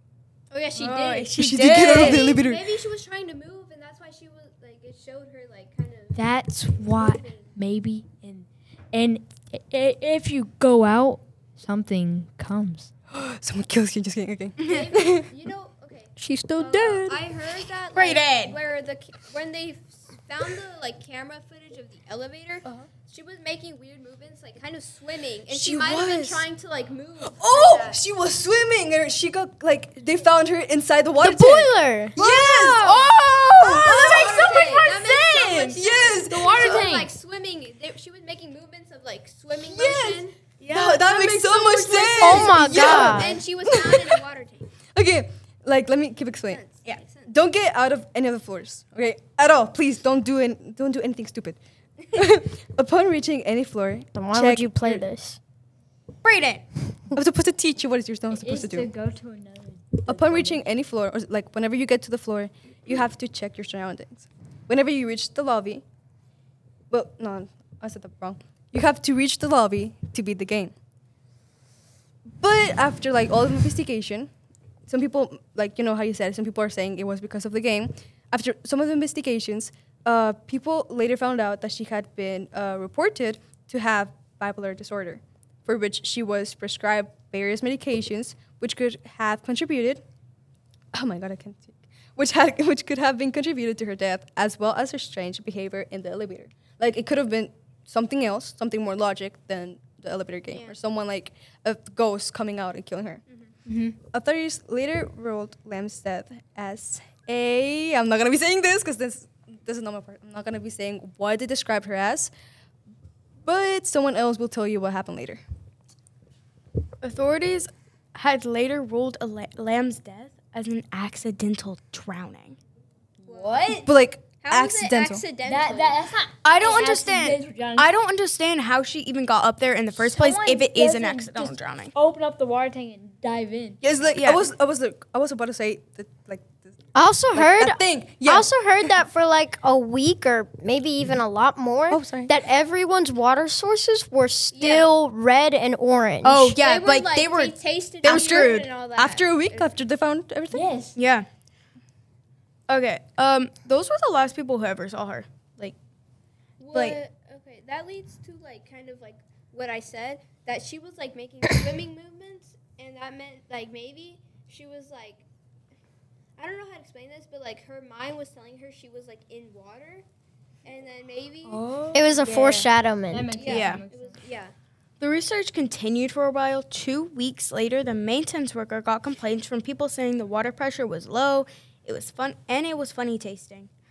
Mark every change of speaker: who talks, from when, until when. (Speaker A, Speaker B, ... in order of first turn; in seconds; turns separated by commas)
Speaker A: 0.5-6.2, Speaker B: 0.7-2.4, Speaker C: 1.3-2.8, Speaker D: 6.1-12.9, Speaker A: 6.8-7.5, Speaker C: 13.1-15.3, Speaker B: 14.6-14.9, Speaker A: 14.6-28.0, Speaker D: 16.2-17.1, Speaker B: 17.9-18.6, Speaker C: 25.5-26.4, Speaker C: 27.2-34.6, Speaker E: 31.2-32.1, Speaker B: 32.1-35.8, Speaker A: 33.8-40.4, Speaker C: 35.7-36.9, Speaker D: 36.2-37.1, Speaker C: 39.5-44.2, Speaker B: 40.6-43.2, Speaker E: 42.2-43.4, Speaker A: 42.4-44.7, Speaker C: 44.9-46.6, Speaker A: 46.5-47.3, Speaker C: 47.3-51.6, Speaker C: 52.1-55.0, Speaker E: 54.1-55.4, Speaker B: 56.2-56.6, Speaker C: 57.1-58.9, Speaker D: 58.3-60.6, Speaker C: 60.1-65.8, Speaker C: 66.9-70.7, Speaker C: 72.4-74.3, Speaker C: 74.9-90.0, Speaker C: 90.9-103.2, Speaker D: 103.7-103.9, Speaker C: 104.1-112.3, Speaker C: 113.4-115.4, Speaker B: 117.0-122.6, Speaker D: 123.2-123.9, Speaker A: 123.3-123.9, Speaker C: 123.8-125.2, Speaker A: 124.4-126.0, Speaker D: 125.4-127.9, Speaker B: 126.4-131.9, Speaker D: 130.0-133.8, Speaker C: 133.8-136.7, Speaker B: 134.1-134.4, Speaker E: 136.9-146.6, Speaker C: 137.3-138.5, Speaker C: 141.9-142.3, Speaker A: 144.5-144.9, Speaker B: 146.2-148.7, Speaker A: 146.5-149.7, Speaker C: 148.0-150.7, Speaker D: 150.5-151.0, Speaker B: 150.9-151.2, Speaker B: 152.7-155.7, Speaker A: 156.6-165.2, Speaker B: 156.7-157.0, Speaker A: 166.4-170.0, Speaker A: 170.6-171.6, Speaker D: 171.4-172.3, Speaker E: 171.9-173.4, Speaker B: 172.2-172.7, Speaker D: 173.1-174.2, Speaker A: 173.4-174.5, Speaker B: 173.4-173.8, Speaker B: 175.0-183.7